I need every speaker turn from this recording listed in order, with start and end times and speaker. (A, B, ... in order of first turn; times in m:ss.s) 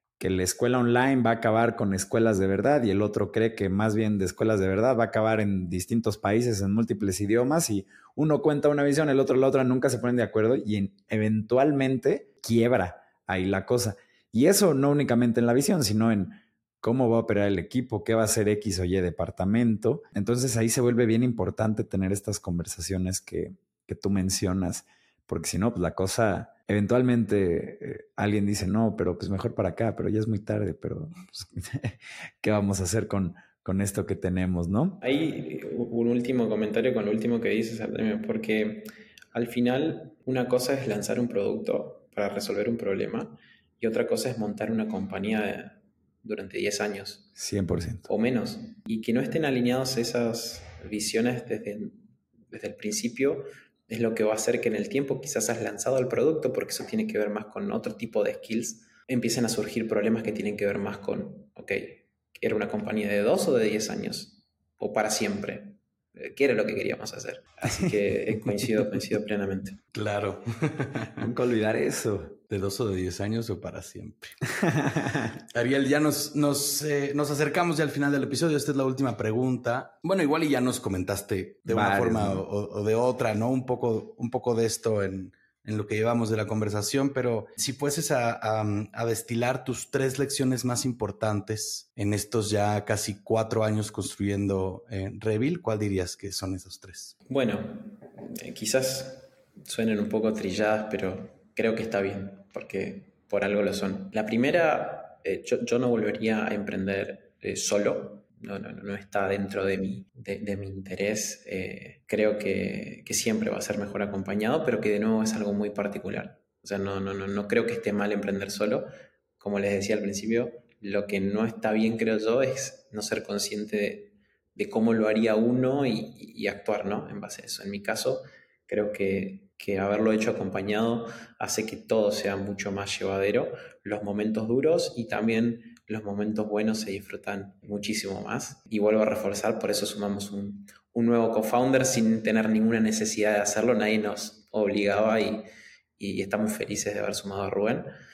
0:00.2-0:35.0 A
0:35.0-0:47.3 B
0:47.4-0:48.1 A
0:48.1-1:09.8 B
1:07.6-1:07.9 A
1:09.9-1:11.3 C
1:11.2-1:12.4 A
1:12.5-1:14.4 C
1:14.5-1:15.4 A
1:15.5-1:37.2 C
1:21.6-1:22.4 A
1:37.3-1:58.8 B
1:59.4-2:25.4 B
2:26.0-2:27.9 B